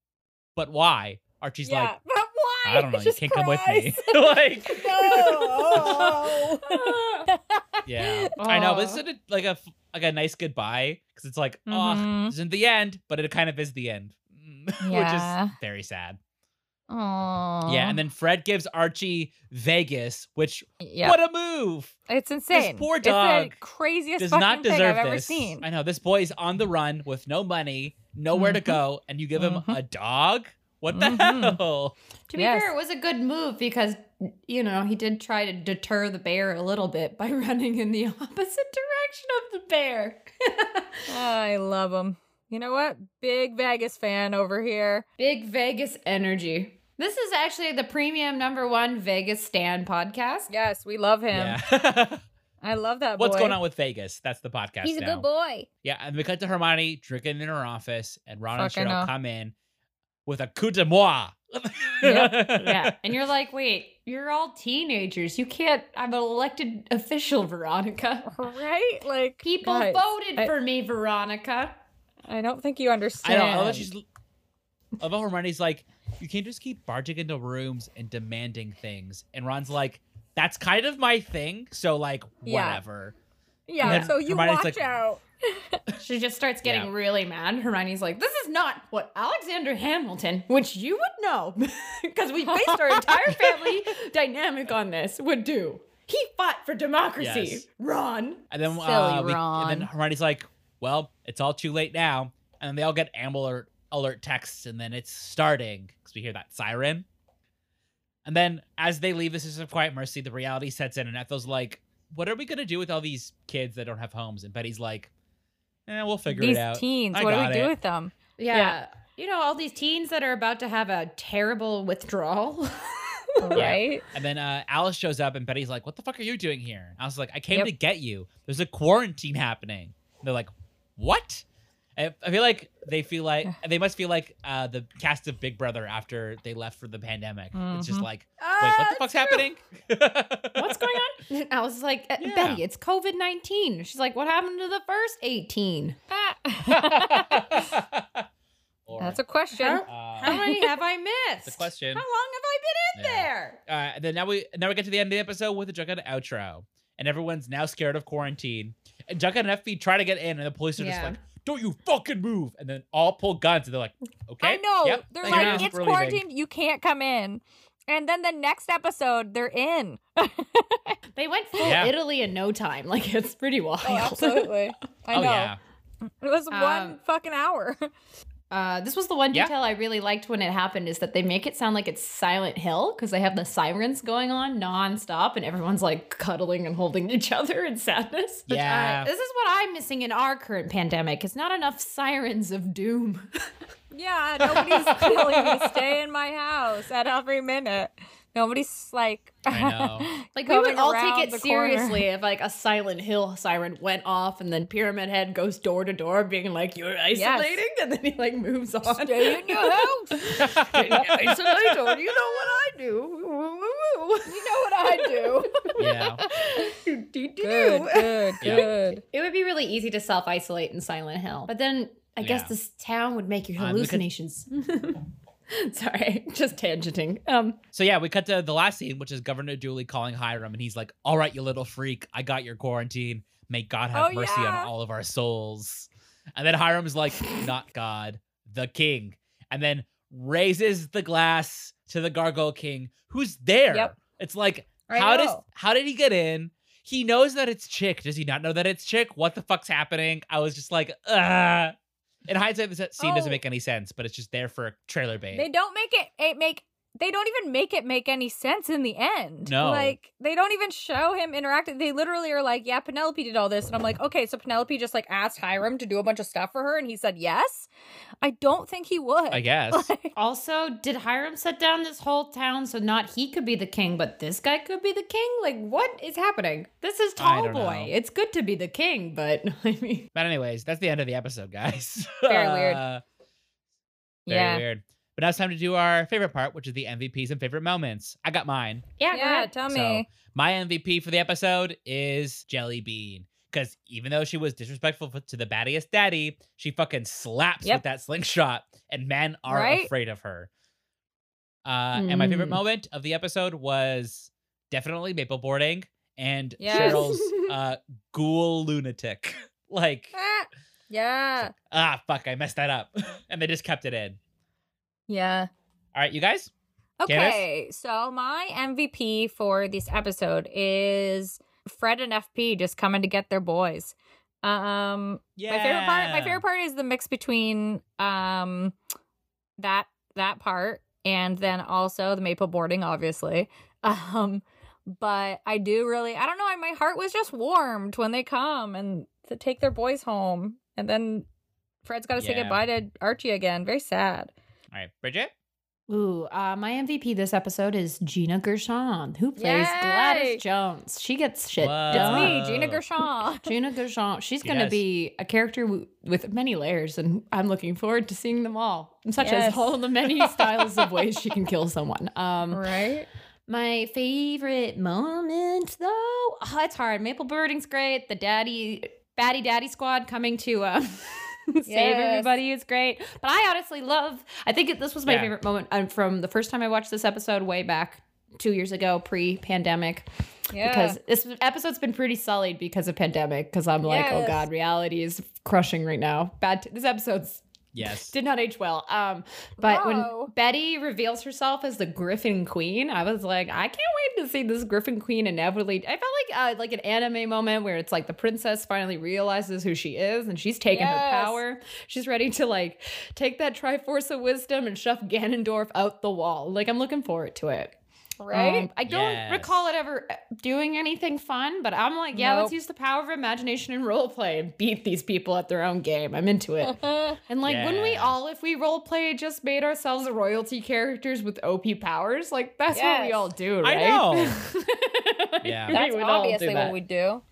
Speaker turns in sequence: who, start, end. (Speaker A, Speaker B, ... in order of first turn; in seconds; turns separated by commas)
Speaker A: 0.6-1.9, Speaker B: 1.6-8.3, Speaker A: 2.6-6.5, Speaker C: 6.7-7.3, Speaker A: 7.9-16.2, Speaker C: 8.4-9.0, Speaker B: 11.7-12.3, Speaker B: 14.8-15.5, Speaker B: 16.9-18.0, Speaker A: 17.6-21.9, Speaker B: 20.8-21.2, Speaker B: 22.1-25.6, Speaker A: 22.5-23.6, Speaker A: 24.2-31.9, Speaker B: 28.3-28.8, Speaker B: 29.4-29.8, Speaker B: 30.9-31.6, Speaker C: 32.3-41.0, Speaker B: 32.4-32.7, Speaker B: 41.1-45.0, Speaker C: 45.2-50.5, Speaker B: 50.5-51.6, Speaker A: 51.3-52.2, Speaker B: 52.6-53.6, Speaker A: 53.2-55.2, Speaker B: 54.8-55.7, Speaker A: 55.8-59.5, Speaker B: 58.5-59.1, Speaker A: 60.2-62.9, Speaker B: 62.0-62.3, Speaker C: 62.4-68.3, Speaker B: 68.3-70.5, Speaker C: 69.4-71.7, Speaker B: 72.2-73.9, Speaker A: 73.2-74.0, Speaker A: 75.0-83.1, Speaker B: 82.4-82.8, Speaker B: 83.7-85.8, Speaker A: 83.8-84.8, Speaker C: 83.8-84.1, Speaker C: 85.9-98.5, Speaker A: 86.6-86.9, Speaker B: 92.5-93.4, Speaker A: 97.2-97.6, Speaker A: 98.5-107.0, Speaker B: 98.7-99.9, Speaker A: 108.2-115.1, Speaker A: 115.9-117.7, Speaker B: 116.3-118.8, Speaker C: 118.4-123.8, Speaker B: 123.4-124.0, Speaker A: 123.5-131.4, Speaker A: 131.9-141.0, Speaker B: 137.5-138.1, Speaker C: 138.4-139.4, Speaker C: 140.5-146.0, Speaker A: 142.2-142.6, Speaker B: 146.1-147.7, Speaker A: 146.7-148.3, Speaker A: 148.9-149.2, Speaker B: 149.0-150.7, Speaker C: 149.5-153.6, Speaker A: 149.9-150.3, Speaker A: 151.4-152.0, Speaker A: 152.9-166.2, Speaker C: 160.8-161.2, Speaker B: 164.4-171.0, Speaker C: 165.2-165.7, Speaker C: 171.1-174.6, Speaker A: 171.6-171.9, Speaker B: 173.8-175.5, Speaker A: 175.1-175.6, Speaker B: 176.1-177.9, Speaker C: 176.5-177.0, Speaker C: 178.5-193.3, Speaker A: 188.5-189.1, Speaker B: 193.9-202.1, Speaker A: 194.4-195.7, Speaker A: 199.5-200.1, Speaker C: 200.4-227.6, Speaker B: 207.1-207.6, Speaker B: 208.8-210.2, Speaker A: 210.4-211.9, Speaker B: 214.3-215.7, Speaker A: 215.8-216.2, Speaker B: 216.2-216.8, Speaker B: 217.4-219.0, Speaker A: 218.4-218.7, Speaker A: 222.2-222.5, Speaker A: 223.6-224.1, Speaker A: 227.7-251.7, Speaker B: 233.9-234.7, Speaker B: 244.9-245.4, Speaker A: 252.2-255.5, Speaker B: 253.0-253.4, Speaker B: 255.3-267.7, Speaker A: 259.5-259.9, Speaker B: 268.2-270.1, Speaker A: 269.3-269.9, Speaker C: 270.1-280.1, Speaker A: 277.2-277.9, Speaker A: 280.1-283.0, Speaker C: 282.2-282.8, Speaker B: 284.3-284.6, Speaker A: 284.3-288.9, Speaker C: 289.0-289.5, Speaker B: 289.1-290.1, Speaker A: 289.7-300.5, Speaker B: 299.5-299.9, Speaker A: 301.6-310.1, Speaker C: 301.9-302.6, Speaker B: 306.6-307.0, Speaker C: 306.7-307.5, Speaker B: 310.1-311.5, Speaker A: 311.5-314.2, Speaker B: 315.1-315.5, Speaker A: 315.9-316.5, Speaker B: 317.0-328.7, Speaker A: 317.1-317.4, Speaker A: 325.4-326.4, Speaker B: 329.6-341.3, Speaker B: 341.8-344.3, Speaker A: 342.2-342.6, Speaker A: 344.7-345.3, Speaker C: 345.9-352.4, Speaker B: 349.4-350.4, Speaker A: 351.6-352.8, Speaker B: 351.9-353.5, Speaker C: 353.4-362.6, Speaker A: 354.4-354.8, Speaker B: 359.2-359.8, Speaker B: 362.5-363.1, Speaker C: 363.5-380.1, Speaker B: 371.6-372.3, Speaker A: 375.1-375.3, Speaker B: 380.5-381.0, Speaker C: 380.6-387.4, Speaker B: 383.8-384.5, Speaker A: 387.7-388.1, Speaker C: 388.1-407.8, Speaker B: 389.6-390.3, Speaker B: 400.7-401.4, Speaker B: 408.2-408.7, Speaker C: 408.3-426.8, Speaker A: 408.9-409.5, Speaker B: 412.1-412.5, Speaker B: 416.6-417.2, Speaker A: 417.4-418.2, Speaker B: 422.7-423.3, Speaker A: 423.6-424.4, Speaker A: 425.4-425.8, Speaker B: 425.7-427.2